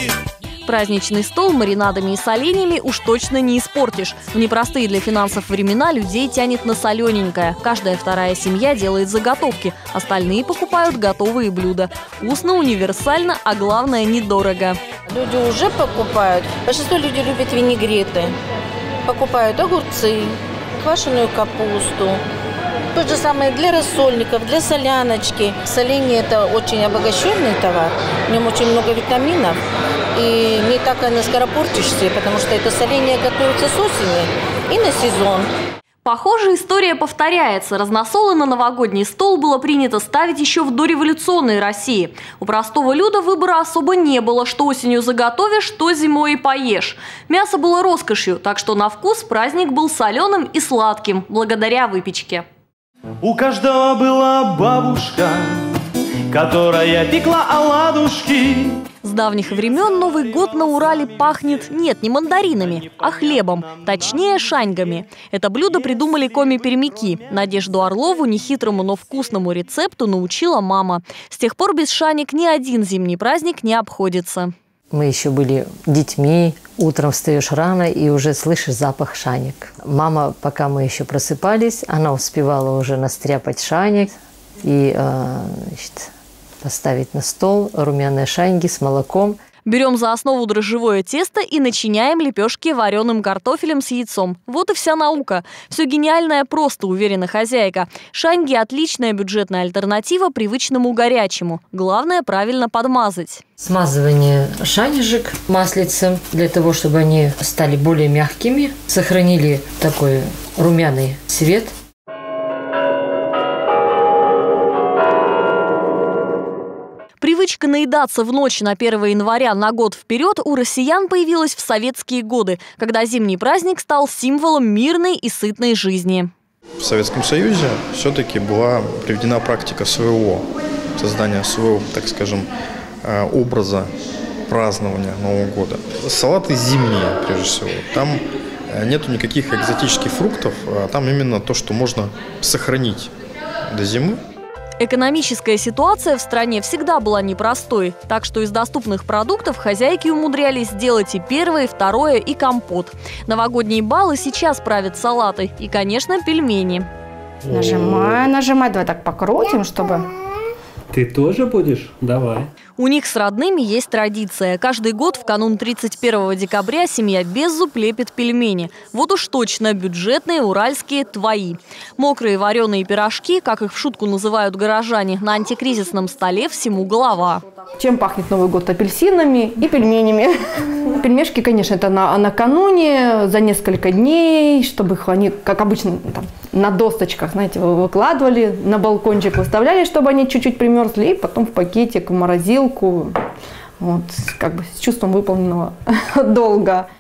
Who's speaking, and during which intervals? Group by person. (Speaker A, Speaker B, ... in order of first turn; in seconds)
Speaker A: 0.7-14.8, 36.0-52.4, 59.0-74.5, 89.7-103.4, 117.2-126.3, 144.8-156.9, 162.8-177.4
Speaker B: 15.1-18.3, 19.1-22.2, 22.9-29.6, 30.1-35.5
Speaker C: 53.2-55.7, 56.3-58.8
Speaker D: 74.9-86.1, 86.6-89.4, 103.6-111.7
Speaker E: 126.8-132.5, 133.0-133.9, 134.5-143.1, 143.7-144.2
Speaker F: 157.4-158.2, 160.9-162.5
Speaker G: 157.5-160.0
Speaker H: 177.8-180.3, 180.8-193.1, 193.8-196.8